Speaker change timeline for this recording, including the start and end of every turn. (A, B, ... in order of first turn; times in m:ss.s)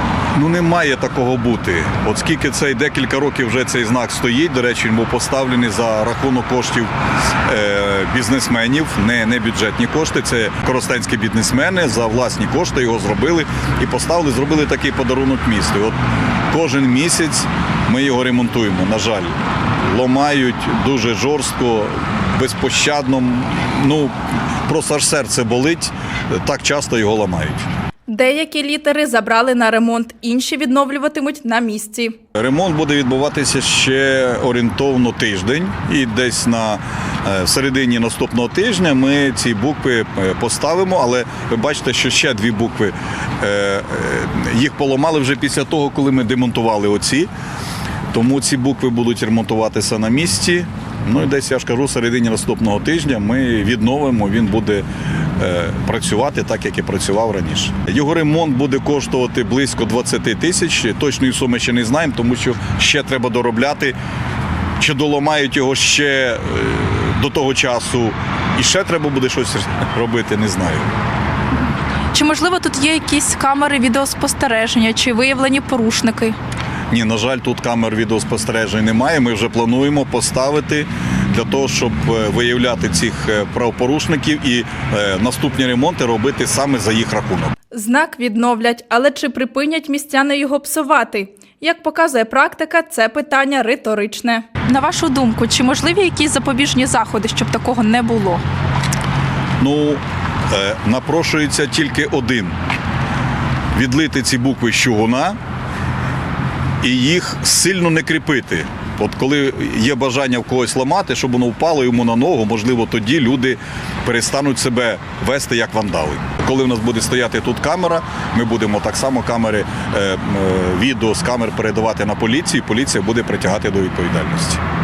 0:00.4-0:06.9 A
0:07.4-0:16.0 A
0:16.5-0:19.3 A
0:19.9-0:24.1 A
0:24.7-0:27.6 A
0:28.1-0:32.2 B
0:32.4-0:47.3 A
0:48.1-0:54.8 A
0:55.4-1:04.0 A
1:04.8-1:10.9 A
1:12.1-1:16.4 B
1:16.9-1:27.5 A
1:27.7-1:38.4 B
1:39.6-1:42.6 A
1:43.7-1:45.4 A
1:46.8-2:04.6 A